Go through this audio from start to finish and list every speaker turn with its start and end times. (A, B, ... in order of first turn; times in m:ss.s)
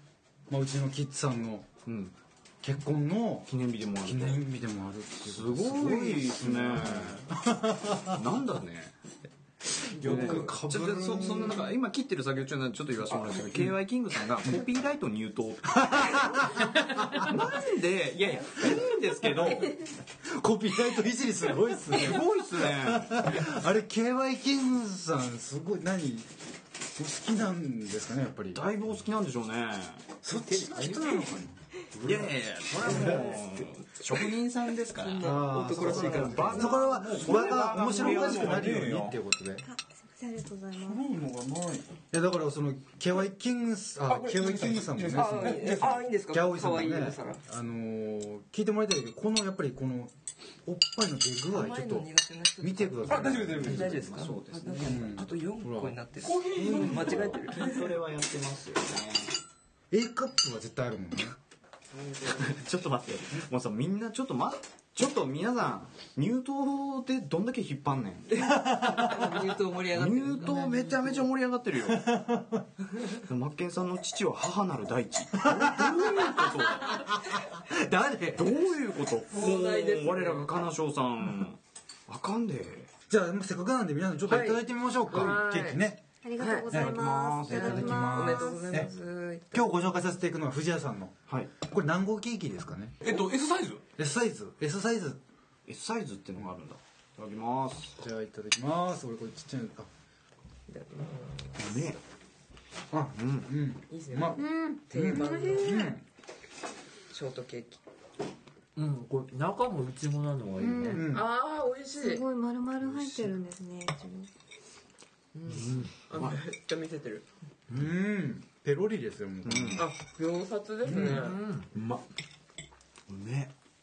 0:00.5-0:01.7 A
0:01.8-0:02.1 B
0:02.6-0:08.2 A
0:03.5-0:04.4 B
0:05.2-0:07.2 B
0:08.1-0:08.9 B
0:09.9-0:11.7 A
0:10.0-0:16.5 B
0:10.0-0:10.6 C
0:13.1-0:13.7 C
0:15.7-0:17.3 A
0:17.1-0:19.8 B
0:19.4-0:19.7 A
0:20.2-0:26.3 A
0:21.9-0:23.2 B
0:27.0-0:28.6 A
0:28.5-0:30.1 B
0:30.2-0:31.6 A
0:30.3-0:31.2 D
0:32.0-0:39.0 B
0:32.7-0:33.4 A
0:32.9-0:33.3 C
0:34.9-0:36.8 E
0:35.2-0:39.6 A
0:36.2-0:39.2 C
0:39.6-0:41.0 F
0:40.8-0:41.9 C
0:42.1-0:50.1 A
0:44.1-0:46.0 C
0:45.1-0:47.4 E
0:50.6-0:52.1 A
0:51.5-0:57.8 E
0:52.6-0:53.9 A
0:53.0-0:54.0 C
0:53.6-0:55.1 B
0:54.8-0:56.0 A
0:56.2-0:57.7 C
0:56.5-0:57.2 A
0:57.5-0:59.3 B
0:59.9-1:01.4 A
1:01.9-1:02.6 E
1:02.3-1:08.3 B
1:08.3-1:11.3 E
1:08.4-1:09.3 A
1:09.9-1:12.1 B
1:11.9-1:12.6 A
1:13.2-1:17.1 B
1:15.4-1:18.6 A
1:18.4-1:22.9 B
1:19.3-1:20.6 E
1:23.1-1:26.0 A
1:24.3-1:25.8 E
1:26.2-1:28.8 F
1:26.4-1:26.8 E
1:26.7-1:28.9 A
1:26.7-1:28.0 B
1:27.5-1:29.8 E
1:29.5-1:33.0 A
1:33.0-1:33.8 C
1:34.0-1:35.2 A
1:35.7-1:38.0 B
1:38.0-1:39.9 A
1:40.7-1:42.0 E
1:41.6-1:42.0 B
1:42.9-1:46.0 A
1:43.2-1:43.5 B
1:43.9-1:45.9 E
1:44.4-1:46.0 F
1:47.1-1:47.8 E
1:48.8-1:51.0 D
1:50.6-1:51.0 F
1:50.9-1:51.2 A
1:51.1-1:52.2 E
1:52.0-1:54.3 F
1:55.3-1:57.2 E
1:55.6-1:55.9 D
1:57.7-1:59.8 A
1:59.4-1:59.8 B
1:59.8-2:01.4 E
2:00.8-2:01.3 A
2:01.0-2:01.7 D
2:01.7-2:02.0 C
2:03.1-2:03.5 B